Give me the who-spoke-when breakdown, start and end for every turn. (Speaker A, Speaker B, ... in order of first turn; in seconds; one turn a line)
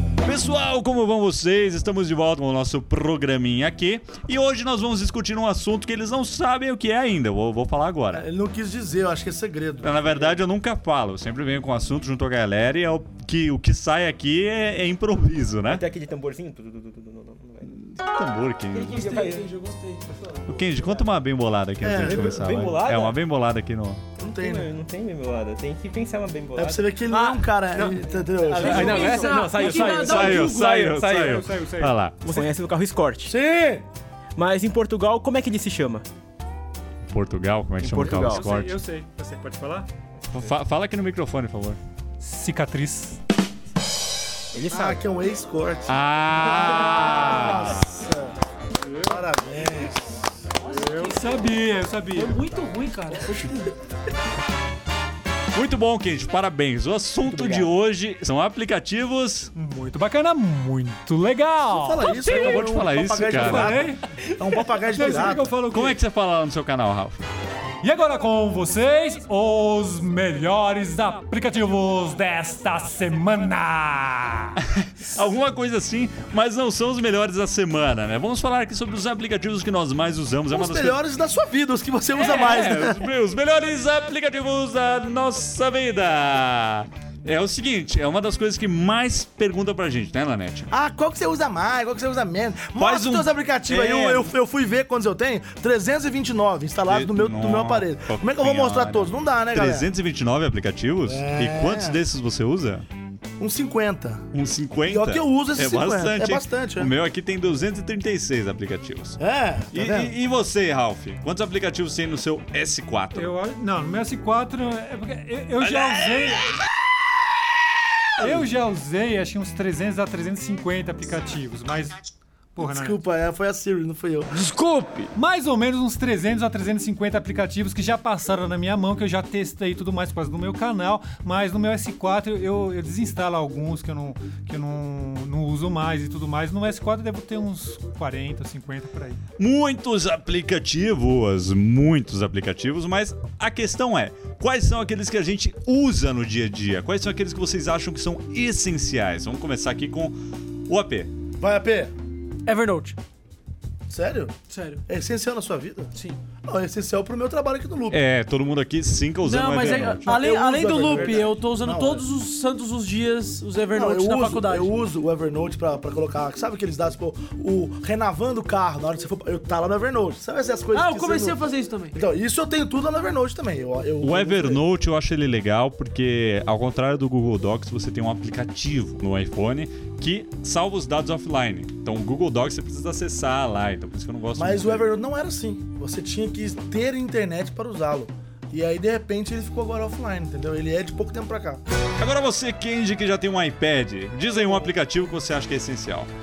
Speaker A: 0.2-8.2
Speaker B: 8.1-10.2
Speaker A: 9.8-15.8
Speaker C: 15.6-17.7
Speaker A: 17.6-19.1
Speaker C: 18.7-19.5
Speaker D: 18.9-20.2
Speaker A: 20.4-24.0
Speaker B: 21.8-22.4
Speaker C: 22.0-23.2
Speaker B: 24.2-24.7
Speaker C: 24.2-31.5
Speaker B: 26.6-29.4
Speaker D: 28.6-30.8
Speaker A: 30.0-32.2
Speaker E: 30.4-32.0
Speaker C: 32.2-33.3
Speaker B: 33.3-33.8
Speaker C: 34.4-36.1
Speaker A: 37.1-38.7
Speaker C: 37.8-38.6
Speaker E: 38.3-39.9
Speaker C: 40.3-40.6
Speaker A: 40.3-41.8
Speaker E: 42.2-43.2
Speaker C: 44.5-45.0
Speaker B: 44.7-48.4
Speaker A: 45.9-48.0
Speaker B: 49.0-50.0
Speaker D: 50.6-51.5
Speaker E: 50.7-52.4
Speaker D: 52.1-53.7
Speaker A: 55.5-59.5
Speaker C: 57.2-57.7
Speaker E: 59.5-62.6
Speaker B: 61.7-65.5
Speaker A: 62.0-63.8
Speaker E: 63.3-64.1
Speaker E: 64.8-66.0
Speaker A: 65.3-67.2
Speaker E: 67.8-74.6
Speaker A: 74.8-81.0
Speaker B: 80.5-83.1
Speaker A: 82.1-90.7
Speaker B: 90.7-99.9
Speaker A: 92.8-94.3
Speaker A: 96.8-102.8
Speaker B: 101.0-102.0
Speaker B: 103.4-104.2
Speaker A: 104.3-109.2
Speaker B: 104.8-106.9
Speaker B: 109.2-110.2
Speaker A: 109.7-113.3
Speaker E: 113.1-116.5
Speaker A: 115.6-116.6
Speaker B: 118.2-118.5
Speaker E: 118.2-122.0
Speaker E: 122.5-123.0
Speaker B: 122.6-124.5
Speaker D: 124.3-125.1
Speaker E: 125.1-139.2
Speaker A: 139.4-150.2
Speaker A: 150.7-151.1
Speaker B: 151.4-151.9
Speaker D: 152.4-153.0
Speaker B: 153.9-154.3
Speaker D: 154.5-154.8
Speaker B: 154.9-155.9
Speaker B: 156.4-158.0
Speaker A: 157.9-160.2
Speaker D: 159.2-164.8
Speaker B: 159.6-162.1
Speaker B: 163.7-171.4
Speaker D: 170.7-171.9
Speaker B: 171.9-174.6
Speaker A: 174.0-184.9
Speaker B: 184.3-191.6
Speaker A: 192.0-196.1